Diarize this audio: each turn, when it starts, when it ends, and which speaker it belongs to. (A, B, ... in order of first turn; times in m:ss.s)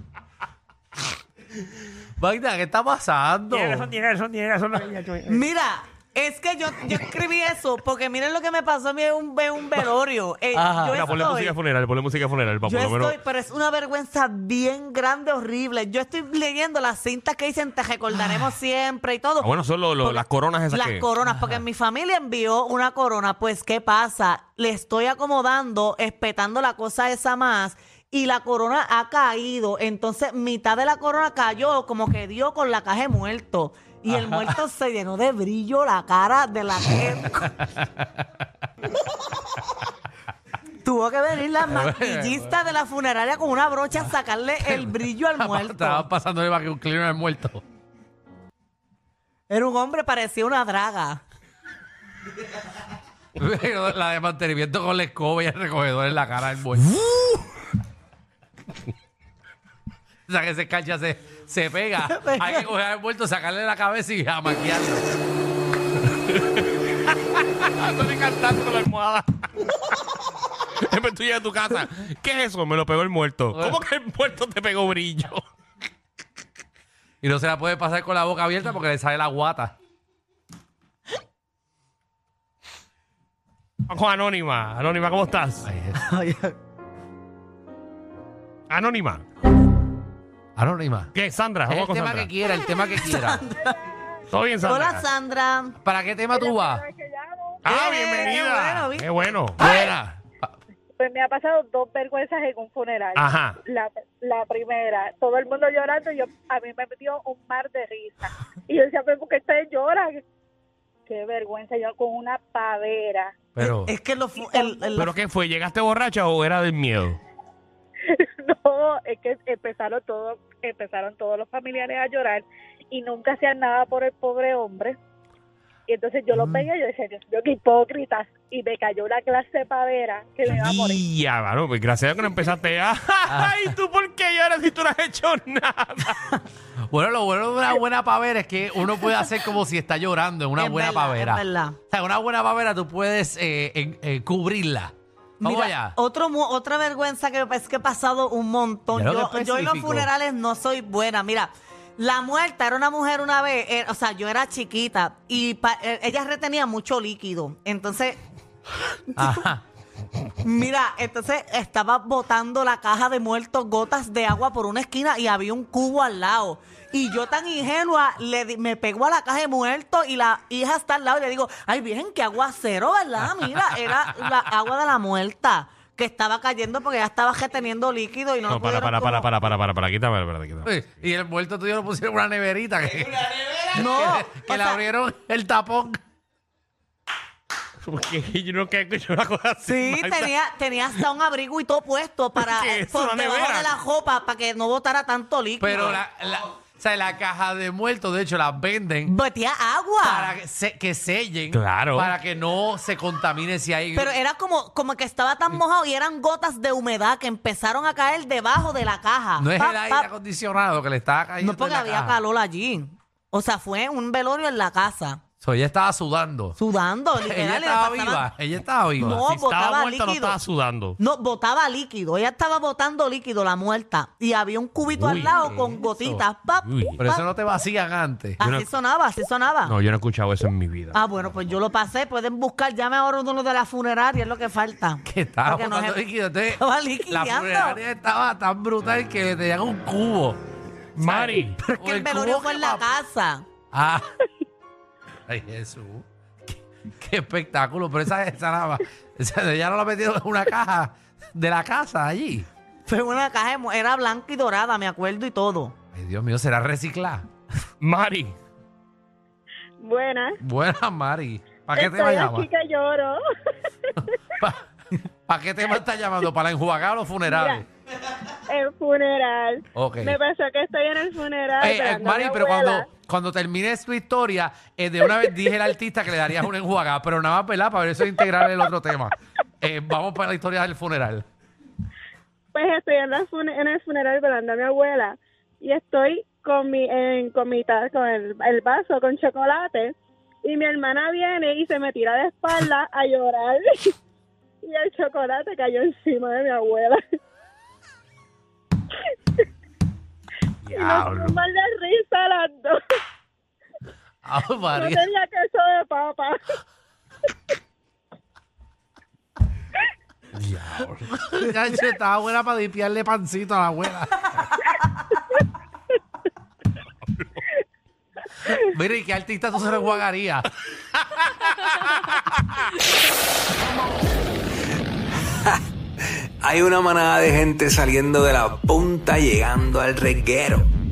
0:02.2-0:03.9 A
0:03.5-0:05.4 B
0:05.3-0:11.6 C
0:10.5-0:11.1 A
0:10.9-0:13.2 B
0:12.7-0:37.6 C
0:19.4-0:21.1 B
0:34.1-0:34.5 A
0:37.6-0:38.2 A
0:40.8-0:46.1 C
0:41.7-0:42.5 A
0:44.6-0:47.6 A
0:49.5-0:51.2 C
0:53.4-0:56.9 A
1:00.3-1:05.0 A
1:02.1-1:02.7 C
1:06.0-1:10.0 B
1:10.8-1:15.4 B
1:13.5-1:13.8 A
1:17.2-1:19.7 A
1:23.9-1:25.7 B
1:25.6-1:26.3 A
1:28.7-1:29.2 B
1:30.6-1:31.1 A
1:31.1-1:32.3 B
1:31.7-1:33.4 A
1:32.9-1:33.8 C
1:34.3-1:35.1 B
1:34.6-1:35.8 C
1:35.8-1:36.8 A
1:36.3-1:38.4 D
1:37.6-1:39.6 B
1:37.7-1:39.3 C
1:39.6-1:40.5 A
1:41.0-1:50.2 D
1:43.2-1:43.6 B
1:51.1-1:53.4 D
1:53.6-1:53.9 A
1:53.6-1:55.1 C
1:54.4-1:55.1 D
1:55.0-1:57.2 B
1:58.1-2:05.0 D
2:05.9-2:11.0 D
2:06.3-2:06.7 A
2:10.5-2:16.4 B
2:13.3-2:13.6 A
2:16.8-2:26.0 A
2:20.6-2:21.8 C
2:25.4-2:38.2 C
2:28.9-2:30.1 A
2:39.2-2:39.6 A
2:40.4-2:59.3 C
2:58.5-3:00.8 B
3:00.6-3:06.0 A
3:03.7-3:04.8 C
3:07.8-3:10.4 B
3:09.6-3:16.0 C
3:12.4-3:13.7 B
3:15.6-3:19.1 A
3:19.0-3:20.4 C
3:20.0-3:24.2 A
3:21.5-3:22.1 B
3:24.0-3:30.1 C
3:29.4-3:32.2 A
3:31.4-3:35.2 C
3:35.4-3:36.6 A
3:36.6-3:38.3 C
3:37.2-3:39.2 A
3:39.0-3:40.4 C
3:39.1-3:41.0 B
3:41.0-3:47.2 C
3:44.9-3:45.4 B
3:45.1-3:46.2 A
3:46.6-3:47.0 B
3:47.0-3:48.4 A
3:48.4-3:49.8 C
3:48.4-3:48.7 B
3:49.6-3:51.6 B
3:50.9-3:57.8 C
3:55.0-4:00.4 A
4:01.0-4:01.6 B
4:01.1-4:02.8 A
4:01.1-4:03.4 C
4:03.7-4:04.1 A
4:05.3-4:12.5 A
4:12.9-4:15.8 C
4:15.9-4:17.3 A
4:17.8-4:18.4 B
4:19.8-4:20.4 D
4:20.4-4:22.5 A
4:21.7-4:23.2 D
4:24.4-4:27.7 A
4:27.3-4:27.6 D
4:28.5-4:32.9 D
4:29.8-4:30.2 A
4:31.6-4:41.3 A
4:42.5-4:53.8 D
4:54.6-4:57.0 D
5:00.7-5:01.4 B
5:00.7-5:02.8 D
5:04.2-5:05.0 A
5:04.7-5:06.4 D
5:10.4-5:14.6 A
5:18.5-5:20.5 A
5:21.1-5:22.0 B
5:26.1-5:30.7 E